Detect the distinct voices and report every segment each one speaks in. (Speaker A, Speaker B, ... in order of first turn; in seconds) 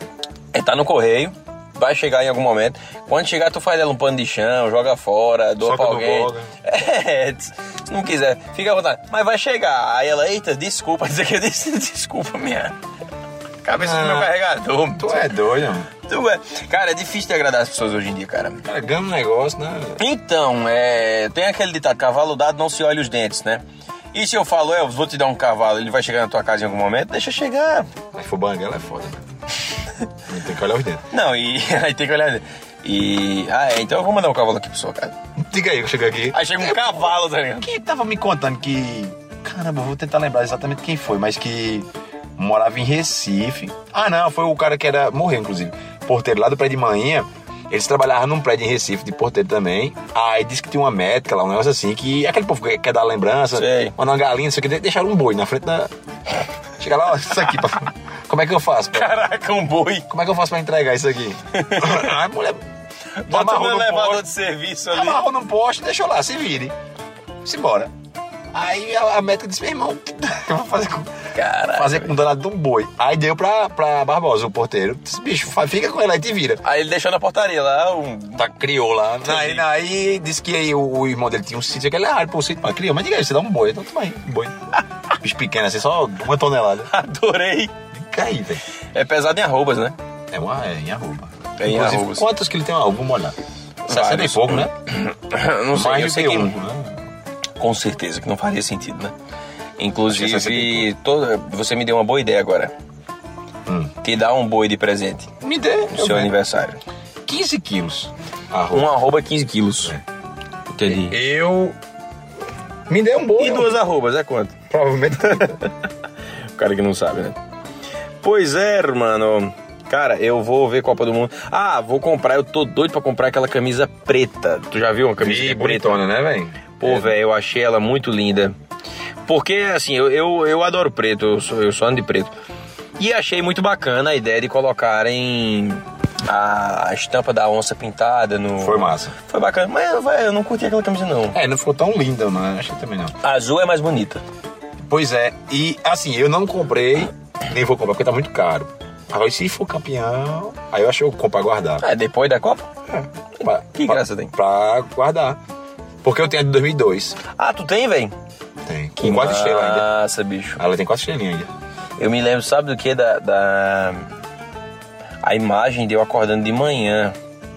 Speaker A: 0.5-12.8, 13.6-15.2, 16.1-18.6, 20.0-23.6, 24.1-27.9, 31.1-35.1, 36.3-37.7, 53.5-54.0, 58.9-60.1, 61.5-62.1, 63.2-65.2, 71.3-72.1, 76.6-78.5, 79.2-79.7, 86.9-87.7, 88.9-90.0, 91.6-92.3, 93.9-96.5, 97.6-99.1, 99.8-102.7, 104.0-105.3, 105.9-106.8, 108.7-110.0, 110.7-111.2, 113.4-114.6, 115.2-115.7, 116.6-117.4, 118.2-126.0, 126.8-128.6, 129.3-132.3, 133.0-141.4, 143.2-144.2, 151.8-152.7, 153.4-154.3, 157.3-158.1, 159.0-160.6, 162.0-164.1, 165.2-167.2
Speaker B: 5.6-6.5, 13.8-14.3, 15.0-15.9, 18.6-20.0, 28.1-29.2, 30.3-31.0, 35.4-41.9, 42.4-55.9, 56.8-59.1, 60.1-62.6, 63.3-64.3, 64.9-66.7, 67.4-67.9, 68.5-71.1, 71.7-76.6, 78.4-84.6, 85.2-86.9, 87.9-88.6, 90.3-93.4, 93.9-94.7, 95.7-97.0, 100.1-100.9, 103.7-103.9, 105.4-106.3, 107.3-109.0, 110.9-111.8, 112.9-113.8, 114.7-115.6, 125.2-127.2, 138.6-139.1, 141.3-143.2, 144.9-151.8, 152.9-155.4, 156.0-157.2, 158.7-159.9, 160.6-161.5